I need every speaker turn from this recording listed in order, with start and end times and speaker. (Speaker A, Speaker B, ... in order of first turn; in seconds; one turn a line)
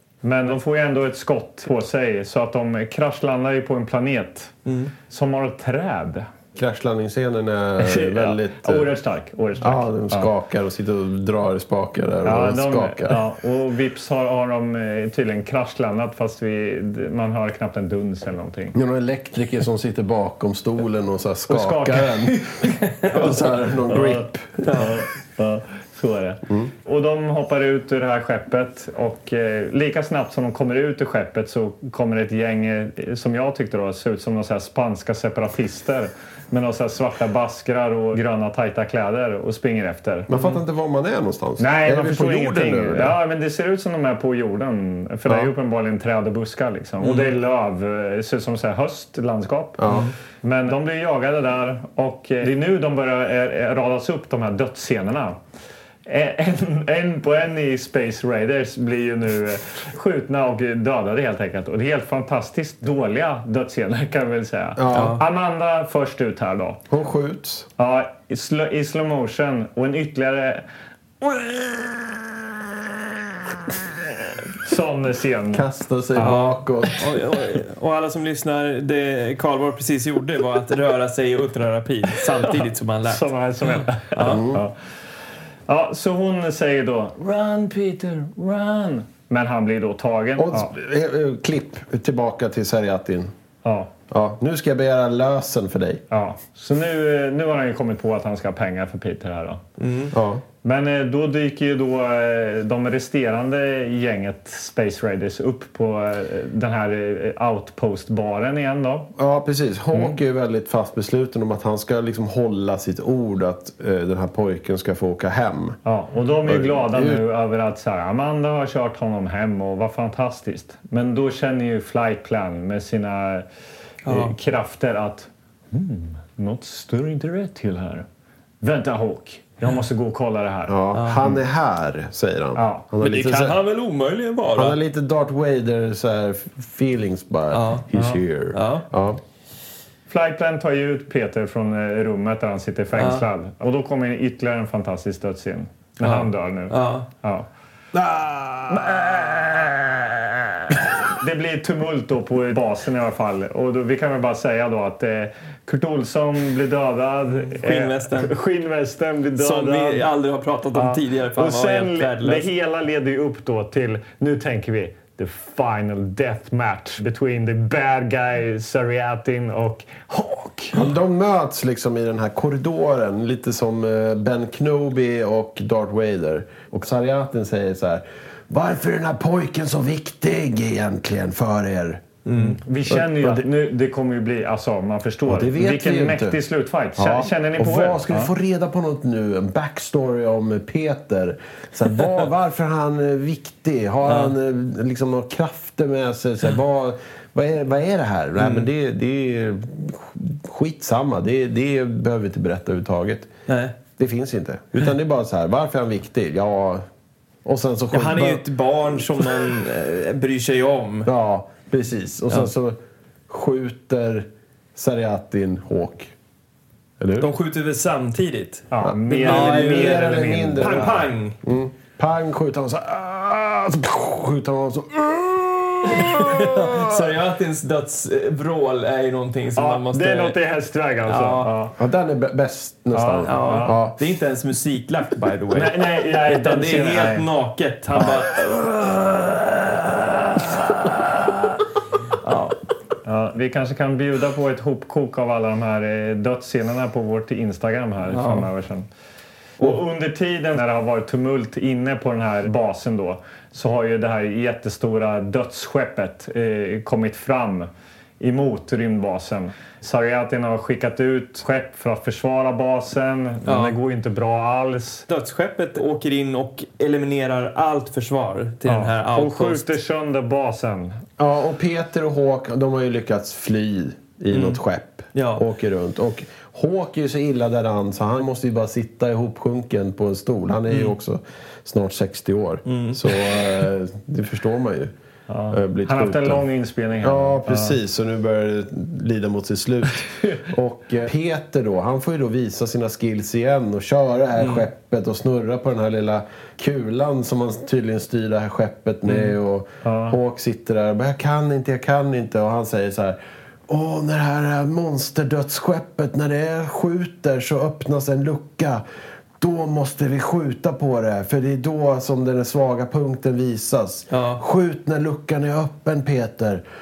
Speaker A: 0.2-6.3
Speaker B: 4.7-4.9
Speaker C: 6.6-8.9
Speaker A: 7.8-10.3
Speaker C: 9.6-13.2
Speaker A: 12.2-18.7
Speaker C: 18.7-24.8
Speaker A: 21.5-22.4
Speaker B: 22.6-23.3
Speaker A: 23.9-40.3
Speaker B: 24.6-24.9
Speaker C: 40.3-43.1
Speaker A: 41.6-49.9
Speaker C: 45.3-45.5
Speaker B: 47.0-47.3
Speaker C: 49.8-50.1
Speaker A: 50.4-55.4
Speaker A: 56.1-66.8
Speaker C: 64.8-65.2
Speaker B: 64.9-65.2
Speaker C: 66.9-67.7
Speaker A: 67.8-70.6
Speaker A: 71.2-72.3
Speaker A: 74.6-75.6
Speaker C: 75.5-77.0
Speaker B: 76.2-84.4
Speaker A: 82.5-84.7
Speaker C: 84.2-84.6
Speaker A: 85.7-90.7
Speaker C: 90.4-93.3
Speaker A: 93.6-93.9
Speaker C: 94.1-96.0
Speaker A: 96.1-99.6
Speaker B: 99.8-100.1
Speaker C: 100.1-100.4
Speaker A: 100.6-109.1
Speaker C: 109.2-115.8
Speaker A: 115.9-123.5
Speaker C: 116.5-117.2
Speaker B: 124.0-124.3
Speaker A: 124.1-128.1
Speaker A: 128.6-130.8
Speaker C: 130.7-133.6
Speaker B: 130.9-131.2
Speaker A: 132.6-132.8
Speaker B: 133.0-134.8
Speaker C: 134.5-139.2
Speaker B: 137.5-137.9
Speaker A: 137.9-138.2
Speaker B: 138.5-138.9
Speaker A: 140.1-147.5
Speaker B: 142.9-143.3
Speaker B: 146.0-147.1
Speaker C: 147.9-149.3
Speaker A: 148.7-160.1
Speaker B: 157.3-158.3
Speaker B: 159.4-162.4
Speaker A: 160.7-170.8
Speaker C: 170.7-182.2
Speaker B: 182.3-182.6
Speaker A: 182.4-188.3
Speaker C: 182.9-183.4
Speaker C: 185.3-186.4
Speaker C: 187.0-203.3
Speaker B: 194.1-194.3
Speaker B: 198.4-198.7
Speaker B: 203.5-203.8
Speaker C: 203.9-206.9
Speaker C: 207.4-208.5
Speaker B: 207.9-211.1
Speaker C: 211.1-212.8
Speaker C: 213.3-216.1
Speaker C: 217.0-217.3
Speaker B: 217.2-221.4
Speaker A: 218.7-221.0
Speaker C: 218.8-227.1
Speaker B: 226.0-230.4
Speaker A: 229.6-231.7
Speaker B: 231.1-231.5
Speaker C: 231.8-233.9
Speaker A: 232.9-233.8
Speaker B: 233.2-241.5
Speaker A: 235.5-237.3
Speaker B: 242.2-242.6
Speaker A: 243.1-248.9
Speaker B: 248.1-248.5
Speaker A: 249.6-257.7
Speaker A: 258.2-265.1
Speaker B: 263.4-263.8
Speaker B: 265.1-269.7
Speaker A: 268.7-271.0
Speaker C: 271.2-284.9
Speaker B: 274.3-274.6
Speaker B: 275.1-275.4
Speaker B: 282.7-283.2
Speaker A: 285.3-287.8
Speaker C: 285.5-286.4
Speaker C: 287.0-308.8
Speaker B: 294.4-294.7
Speaker A: 299.8-300.2
Speaker C: 309.4-316.6
Speaker B: 314.1-314.4